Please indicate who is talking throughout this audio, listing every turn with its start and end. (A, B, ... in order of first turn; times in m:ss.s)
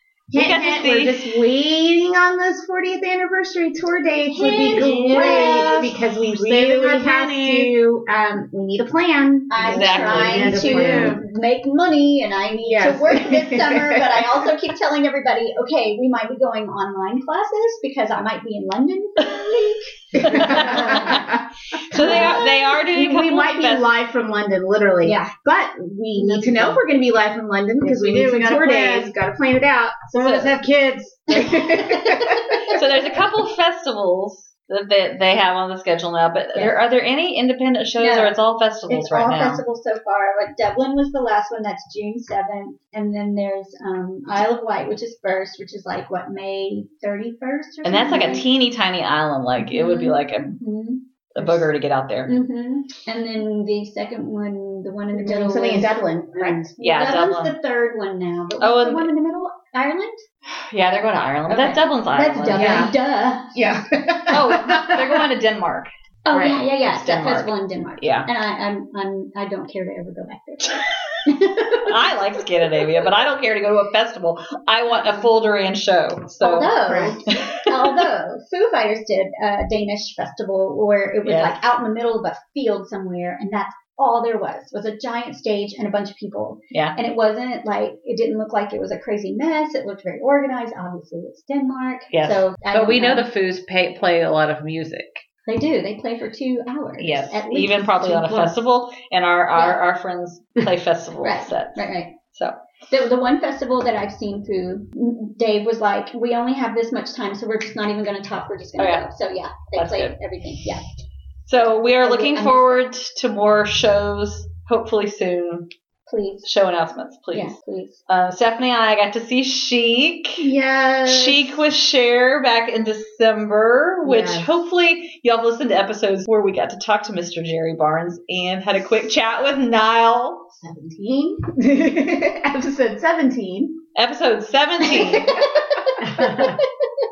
0:00.3-0:11.2 A
0:00.4-0:01.4 B
0:04.3-0:05.7 C
0:04.4-0:07.6 B
0:04.8-0:05.8 D
0:07.1-0:07.6 D
0:09.5-0:21.2 C
0:09.7-0:10.4 B
0:09.8-0:11.2 D
0:12.6-0:14.5 A
0:20.1-0:30.1 A
0:20.2-0:21.3 B
0:20.6-0:21.2 D
0:21.9-0:24.0 B
0:22.0-0:22.7 C
0:25.0-0:25.3 C
0:26.2-0:26.8 D
0:27.8-0:29.1 D
0:30.1-0:31.5 D
0:30.2-0:30.6 B
0:31.3-0:32.6 A
0:31.7-0:32.7 C
0:32.7-0:39.6 B
0:38.0-0:38.4 C
0:38.9-0:48.5 C
0:47.8-0:50.6 B
0:49.6-0:51.5 C
0:51.3-0:52.3 B
0:52.3-0:56.0 C
0:55.1-0:56.7 A
0:56.3-0:56.7 D
0:56.8-1:00.2 C
0:56.8-0:57.5 B
0:58.6-0:59.1 B
1:00.5-1:02.9 B
1:01.5-1:03.5 C
1:02.5-1:02.9 A
1:03.5-1:05.2 A
1:04.3-1:08.3 B
1:06.3-1:12.0 C
1:11.8-1:16.8 B
1:15.0-1:15.2 C
1:16.4-1:33.2 C
1:16.9-1:17.2 D
1:17.3-1:18.0 B
1:21.2-1:21.6 B
1:32.1-1:35.2 B
1:35.5-1:38.6 C
1:37.0-1:42.6 B
1:41.2-1:42.1 C
1:42.9-1:50.8 C
1:48.8-1:49.1 B
1:49.7-1:50.2 B
1:51.5-1:55.7 B
1:51.8-1:52.9 C
1:56.1-1:56.5 C
1:56.4-1:57.6 B
1:57.3-1:58.0 C
1:58.1-2:00.5 B
2:00.4-2:01.6 A
2:01.1-2:10.5 B
2:04.0-2:04.6 A
2:10.6-2:13.8 A
2:14.0-2:15.3 B
2:15.0-2:16.7 C
2:16.0-2:16.6 D